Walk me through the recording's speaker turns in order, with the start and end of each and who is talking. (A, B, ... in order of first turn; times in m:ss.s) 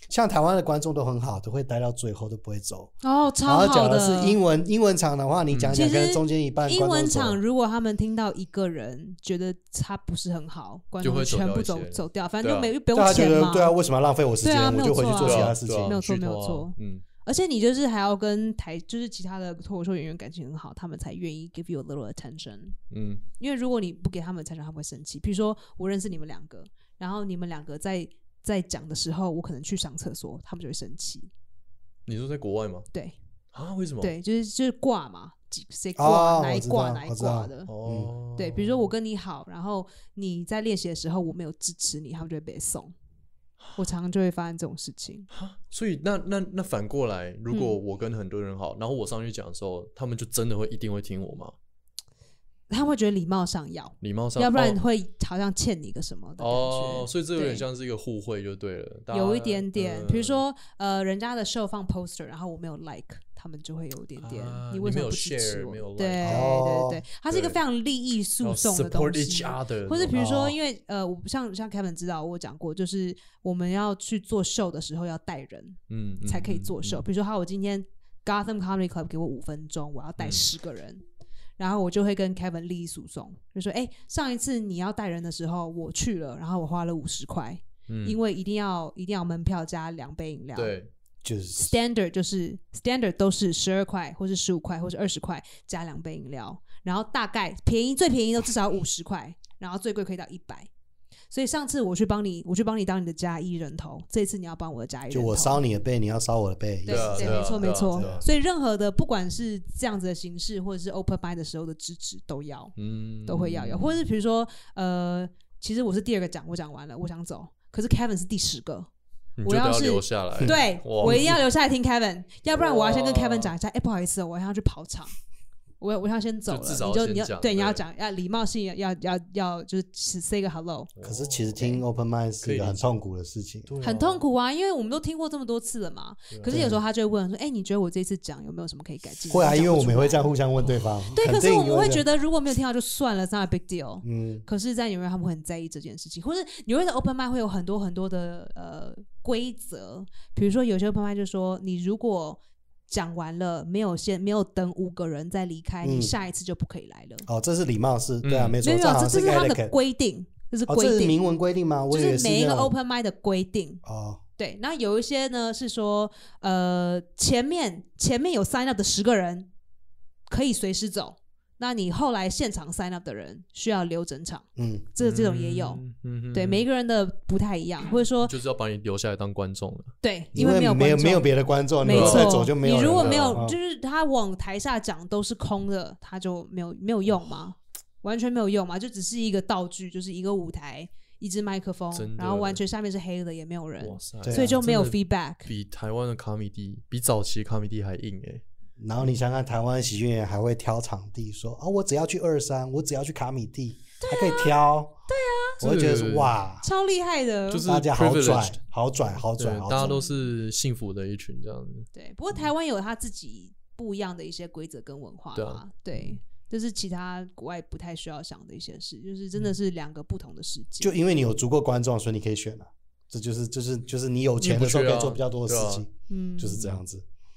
0:00.1-0:02.9 A
0:03.0-0:04.4 B
0:03.4-0:07.4 A
0:05.5-0:05.8 C
0:05.7-0:13.8 B
0:11.0-0:12.7 C
0:12.9-0:16.0 A
0:14.4-0:22.8 B
0:15.2-0:17.0 C
0:22.9-0:23.2 C
0:23.4-0:31.3 B
0:32.1-0:32.9 C
0:33.5-0:34.1 C
0:34.0-0:37.7 B
0:36.0-0:38.1 A
0:37.7-0:38.9 C
0:38.4-0:42.9 B
0:43.6-0:43.8 C
0:43.8-0:45.3 B
0:45.3-0:51.5 C
0:47.5-0:47.8 B
0:52.7-0:57.6 B
0:54.0-0:54.8 C
0:56.4-1:00.4 C
0:59.1-1:21.0 B
1:04.2-1:06.5 C
1:06.2-1:07.0 A
1:07.3-1:07.6 C
1:08.4-1:10.3 C
1:10.1-1:10.6 A
1:15.9-1:17.0 C
1:20.2-1:20.4 C
1:21.6-1:30.8 B
1:27.9-1:28.2 C
1:30.6-1:30.9 C
1:31.2-1:31.8 A
1:31.6-1:40.7 B
1:41.3-1:45.6 B
1:45.1-1:48.2 A
1:46.8-1:52.7 B
1:46.9-1:48.2 C
1:52.8-1:54.0 C
1:53.2-1:58.9 B
1:59.4-2:01.4 C
1:59.4-2:05.1 B
2:00.4-2:01.3 A
2:02.5-2:03.5 C
2:05.8-2:10.9 B
2:06.5-2:07.8 C
2:11.0-2:11.7 C
2:11.0-2:13.7 A
2:12.4-2:12.8 C
2:13.7-2:14.2 C
2:13.8-2:20.3 B
2:16.3-2:16.6 C
2:16.4-2:16.8 A
2:19.3-2:22.0 A
2:21.1-2:37.2 B
2:24.0-2:24.4 A
2:35.8-2:36.1 A
2:37.3-2:39.7 A
2:38.2-2:38.6 C
2:38.6-2:41.2 B
2:40.7-2:42.7 A
2:41.9-2:43.8 B
2:43.8-2:44.2 A
2:44.4-2:49.5 B
2:50.3-2:55.8 B
2:54.6-2:54.9 A
2:55.0-2:56.6 C
2:56.3-2:58.3 B
2:58.2-2:59.9 C
3:00.0-3:01.2 B
3:00.3-3:03.6 A
3:01.8-3:15.5 B
3:01.9-3:03.4 C
3:11.9-3:12.6 C
3:13.8-3:18.4 C
3:14.2-3:14.6 A
3:18.8-3:25.0 A
3:24.0-3:25.6 B
3:25.6-3:26.6 A
3:25.6-3:26.4 C
3:26.6-3:27.6 B
3:27.5-3:28.6 C
3:27.6-3:29.9 A
3:29.4-3:31.9 C
3:29.7-3:30.2 B
3:31.9-3:40.9 B
3:35.3-3:36.1 C
3:40.8-3:47.0 A
3:44.4-3:45.8 C
3:46.1-3:46.6 B
3:46.5-3:46.8 C